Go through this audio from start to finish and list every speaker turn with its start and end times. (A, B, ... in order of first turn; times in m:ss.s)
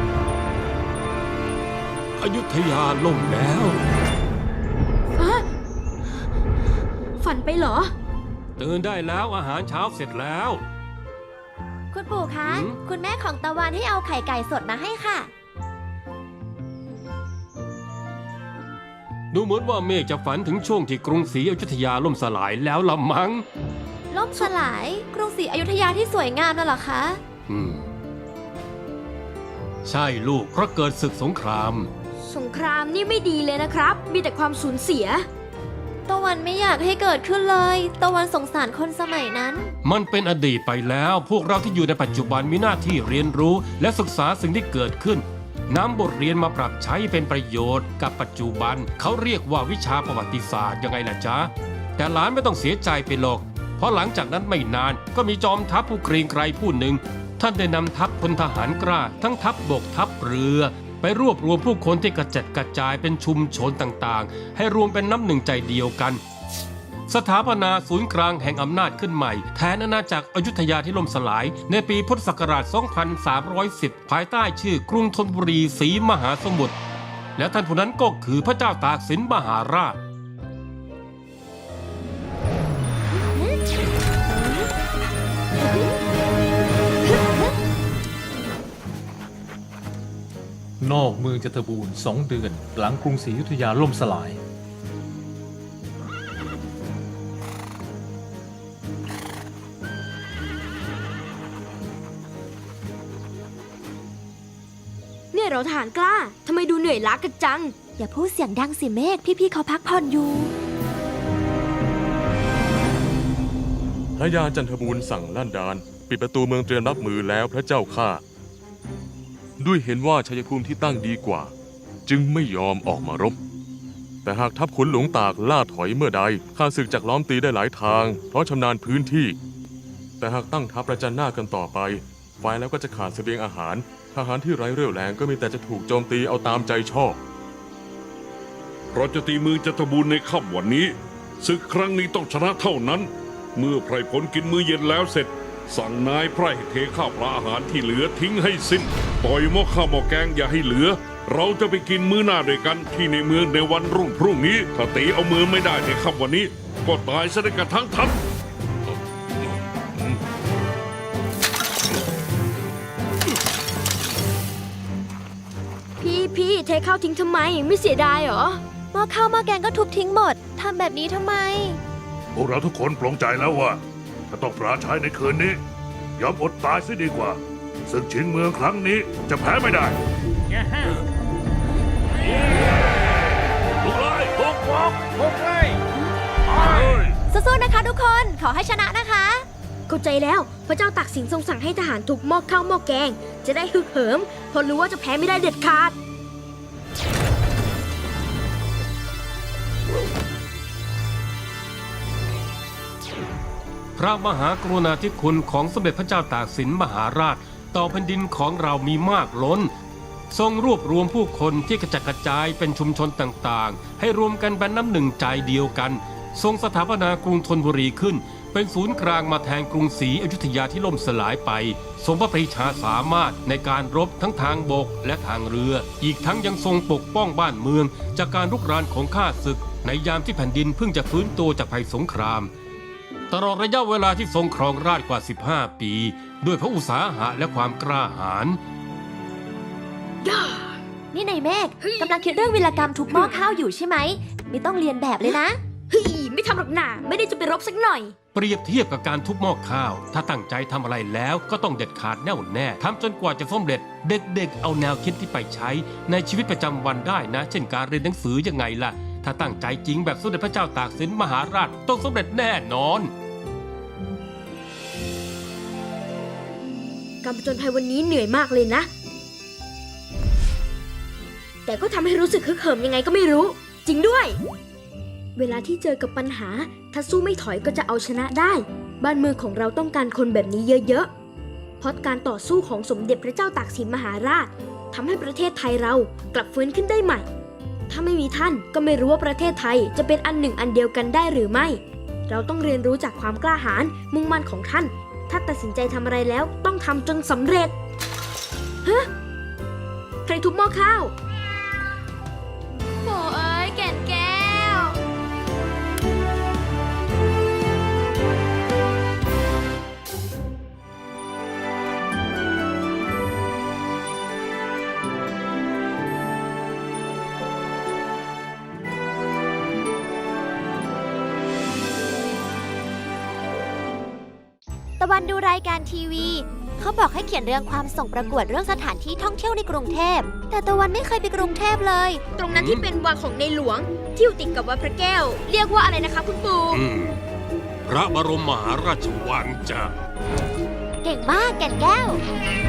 0:02.2-0:03.8 A
0:05.2-0:05.5 B
0:07.2-0:07.9 B
0:08.6-0:10.6 A
0:11.9-0:15.3 C
0:12.5-0:12.8 A
0:19.3-0:23.4 A
0:24.1-0:27.2 C
0:27.5-0:27.8 A
0:29.8-0:31.9 A
0:32.2-0:35.3 B
0:36.1-0:39.7 C
0:39.8-1:06.2 A
1:07.1-1:16.8 A
1:17.4-1:20.0 A
1:24.4-1:24.7 C
1:27.1-1:27.4 C
1:30.8-1:34.4 D
1:45.3-1:47.8 B
1:48.0-1:50.5 C
1:54.2-1:58.2 E
1:59.6-2:01.5 E
2:02.1-2:03.4 E
2:04.2-2:09.4 E
2:10.2-2:17.2 E
2:19.0-2:38.2 F
2:46.0-2:48.6 B
2:48.9-2:51.8 C
2:52.4-2:55.6 G
2:56.2-3:00.0 G
3:03.8-3:04.9 G
3:06.7-3:09.5 C
3:09.9-3:16.0 B
3:24.0-3:29.7 A
3:30.3-3:52.5 A
3:53.3-3:58.6 A
4:00.2-4:00.8 B
4:01.1-4:05.6 C
4:01.8-4:03.5 B
4:05.9-4:08.2 B
4:08.3-4:23.1 A
4:27.2-4:28.9 B
4:31.7-4:34.4 B
4:35.4-4:41.1 B
4:41.8-4:47.3 B
4:47.9-4:57.7 B
4:58.8-4:59.1 B
5:00.3-5:01.1 B
5:03.0-5:05.0 B
5:25.0-5:32.2 C
5:32.4-5:36.8 B
5:32.5-5:32.8 A
5:36.7-5:37.2 A
5:37.8-5:39.9 A
5:41.0-5:42.2 C